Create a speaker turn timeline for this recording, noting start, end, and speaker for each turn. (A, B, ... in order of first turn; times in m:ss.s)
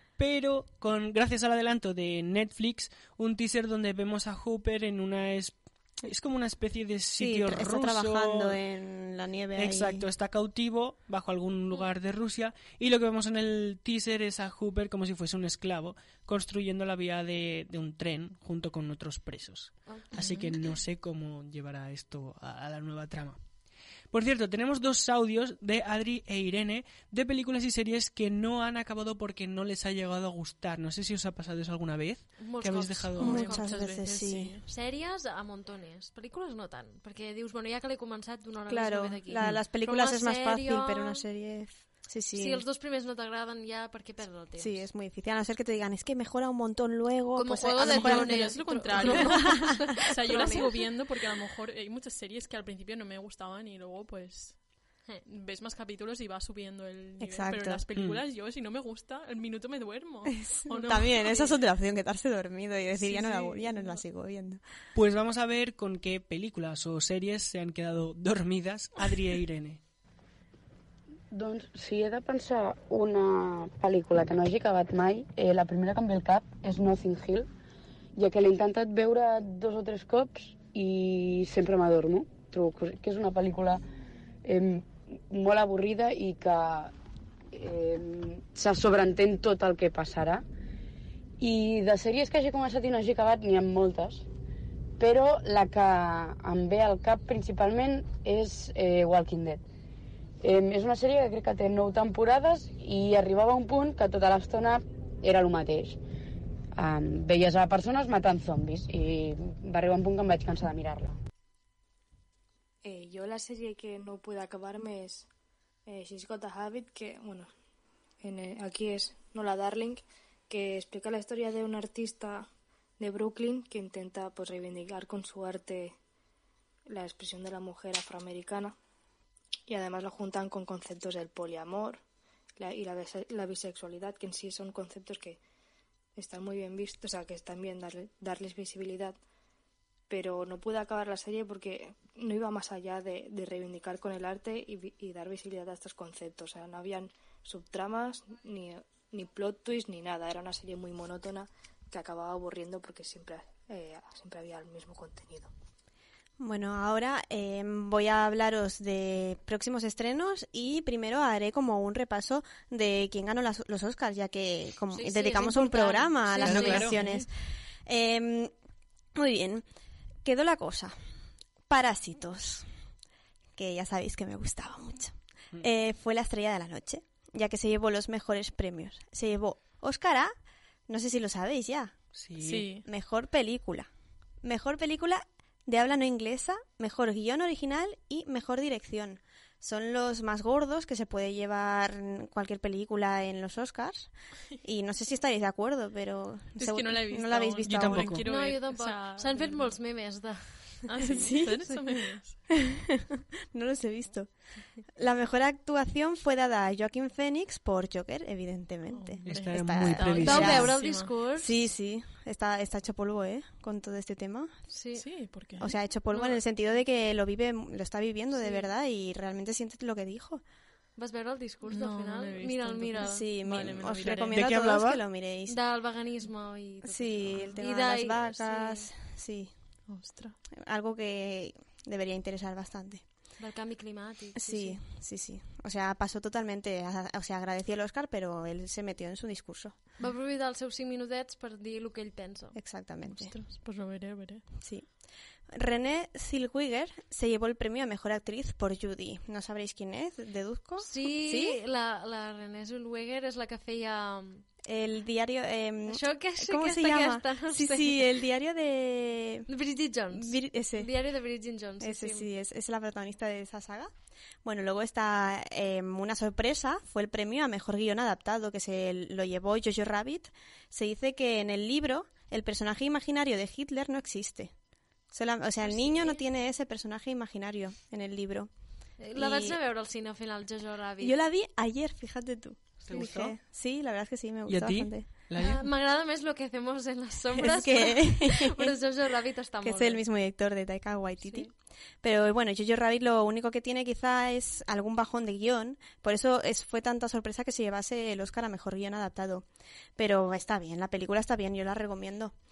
0:00.2-0:08.6 A
0:07.2-0:10.0 B
0:09.5-0:23.4 A
0:20.2-0:20.5 C
0:24.1-0:33.4 A
0:32.4-0:33.7 D
0:33.2-0:34.7 C
0:33.2-0:34.5 B
0:34.7-0:41.2 D
0:38.7-0:42.6 B
0:42.4-0:44.9 D
0:44.6-0:50.6 B
0:47.3-0:50.7 D
0:47.8-0:54.6 C
0:55.2-1:01.5 C
0:57.2-0:57.8 B
0:57.9-0:58.2 A
1:00.5-1:04.6 B
1:02.9-1:04.0 C
1:04.9-1:09.8 A
1:11.3-1:17.5 E
1:18.2-1:23.8 E
1:24.4-1:26.9 E
1:27.5-1:30.4 E
1:31.4-1:34.2 E
1:35.0-1:39.6 E
1:40.4-1:46.0 E
1:46.8-1:51.2 E
1:52.8-1:55.3 F
1:55.9-1:57.5 F
1:58.2-2:02.5 F
2:03.0-2:05.9 F
2:06.9-2:08.7 F
2:09.7-2:12.0 F
2:12.6-2:15.4 F
2:16.2-2:19.1 F
2:20.1-2:35.5 F
2:36.4-2:47.3 B
2:44.9-2:47.0 D
2:46.4-2:47.0 A
2:46.7-2:47.2 C
2:47.8-2:48.5 B
2:49.2-2:49.6 B
2:50.2-2:51.0 B
2:51.7-2:52.7 B
2:53.6-3:00.3 B
3:00.9-3:02.0 B
3:02.1-3:02.7 A
3:02.4-3:02.8 C
3:02.8-3:03.9 B
3:04.4-3:18.2 B
3:16.6-3:19.7 C
3:17.6-3:18.2 A
3:18.3-3:20.9 D
3:20.9-3:22.4 C
3:21.1-3:30.8 B
3:28.9-3:31.1 C
3:29.2-3:30.7 A
3:30.2-3:31.6 D
3:31.3-3:34.5 B
3:34.7-3:35.0 D
3:35.0-3:36.3 C
3:35.6-3:40.4 B
3:38.4-3:38.6 D
3:41.0-3:43.2 D
3:41.7-3:44.4 C
3:43.0-3:45.6 B
3:44.2-3:45.0 A
3:45.5-3:48.9 D
3:46.8-3:49.5 B
3:49.9-3:50.4 C
3:50.6-3:53.1 B
3:53.4-3:54.8 D
3:54.4-3:59.8 B
4:00.0-4:02.6 D
4:02.5-4:03.3 B
4:03.0-4:04.4 C
4:04.6-4:05.0 B
4:05.5-4:11.6 B
4:10.8-4:14.4 D
4:14.6-4:19.5 B
4:15.9-4:18.1 D
4:19.5-4:22.3 D
4:20.1-4:20.9 B
4:21.8-4:23.9 B
4:24.4-4:34.5 B
4:35.1-4:38.5 B
4:35.6-4:36.2 D
4:39.0-4:41.2 D
4:39.1-4:39.6 B
4:41.0-4:45.1 B
4:42.8-4:43.4 A
4:44.5-4:45.7 A
4:45.4-4:50.0 D
4:47.4-4:48.7 B
4:49.6-5:02.3 B